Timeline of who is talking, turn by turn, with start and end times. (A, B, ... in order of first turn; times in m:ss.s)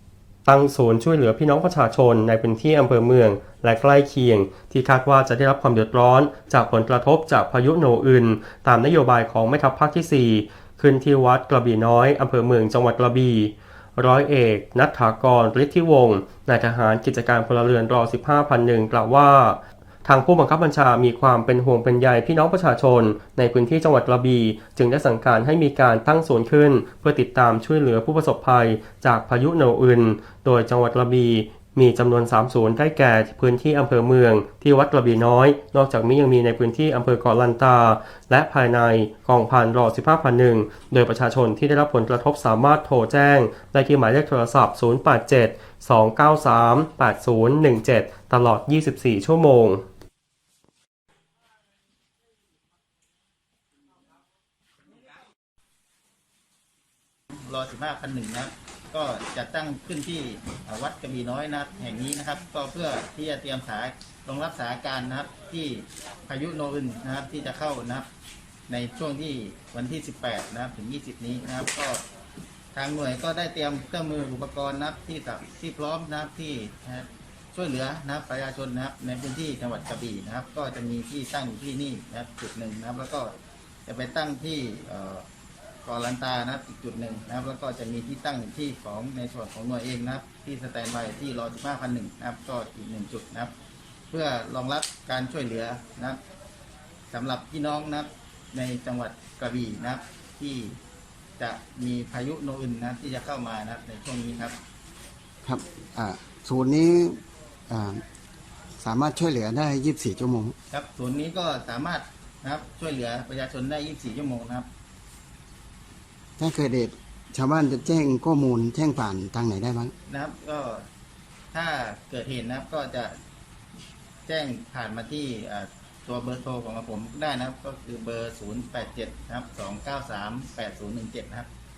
0:00.4-0:49.8 A
0:57.4-1:08.1 B
1:08.7-1:12.0 B
1:12.7-1:23.3 B
1:23.8-1:25.2 B
1:25.8-1:33.5 B
1:34.1-1:36.2 B
1:37.1-1:40.8 B
1:41.4-1:44.6 B
1:45.4-1:48.0 C
1:48.8-1:50.6 C
1:50.7-1:54.7 B
1:56.4-1:59.9 C
2:00.0-2:00.8 B
2:01.5-2:03.2 B
2:04.2-2:11.5 B